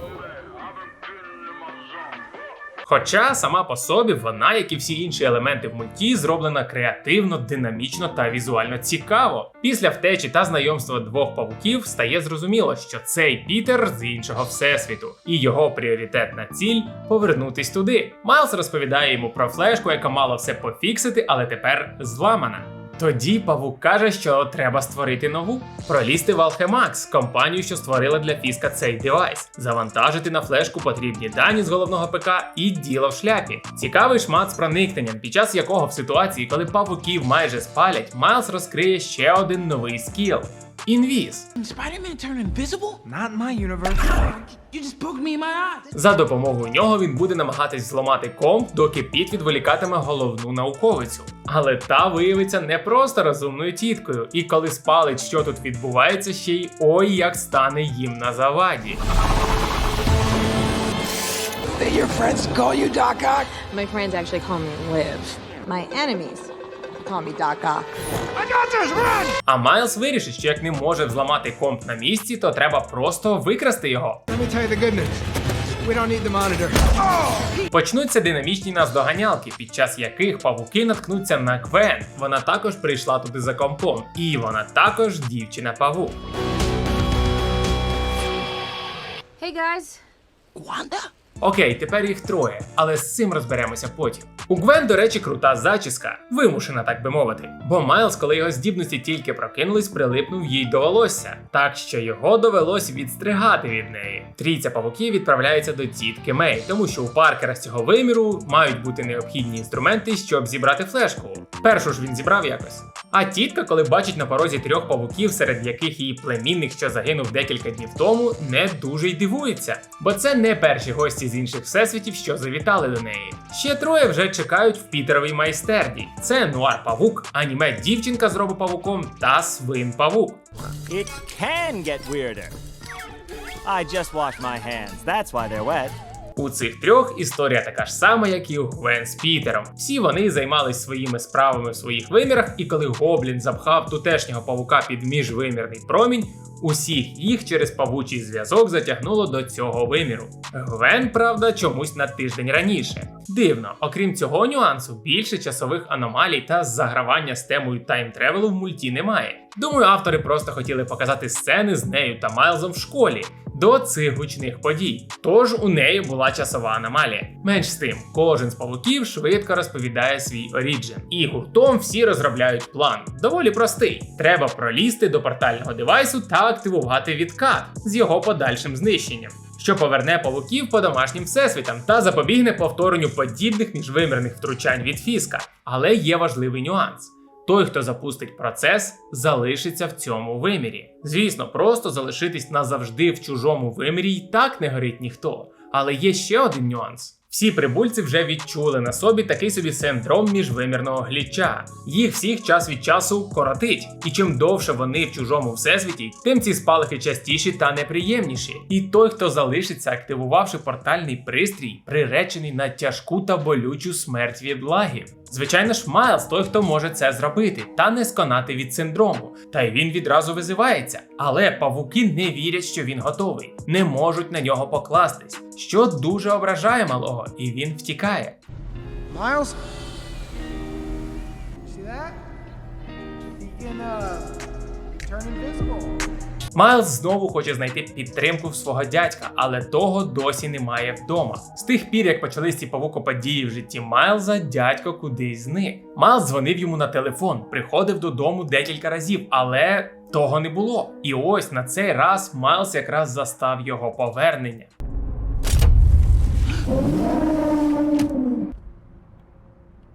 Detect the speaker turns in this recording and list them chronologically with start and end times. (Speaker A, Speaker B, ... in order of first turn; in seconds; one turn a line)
Speaker A: 2.9-41.5
Speaker B: 41.6-43.0
Speaker C: 43.1-44.1
Speaker B: 44.0-45.9
Speaker A: 45.9-59.0
Speaker D: 63.5-67.9
Speaker C: 68.5-69.2
Speaker A: 69.5-74.2
Speaker C: 74.3-75.2
Speaker C: 75.8-77.0
Speaker A: 77.7-86.2
Speaker B: 90.5-91.1
Speaker A: 91.4-130.4
Speaker E: 130.9-132.5
Speaker E: 133.6-136.0
Speaker A: 136.4-228.4
Speaker C: 229.1-229.6
Speaker C: 231.7-232.1
Speaker C: 233.4-234.2
Speaker C: 235.1-235.8
Speaker A: 236.5-254.7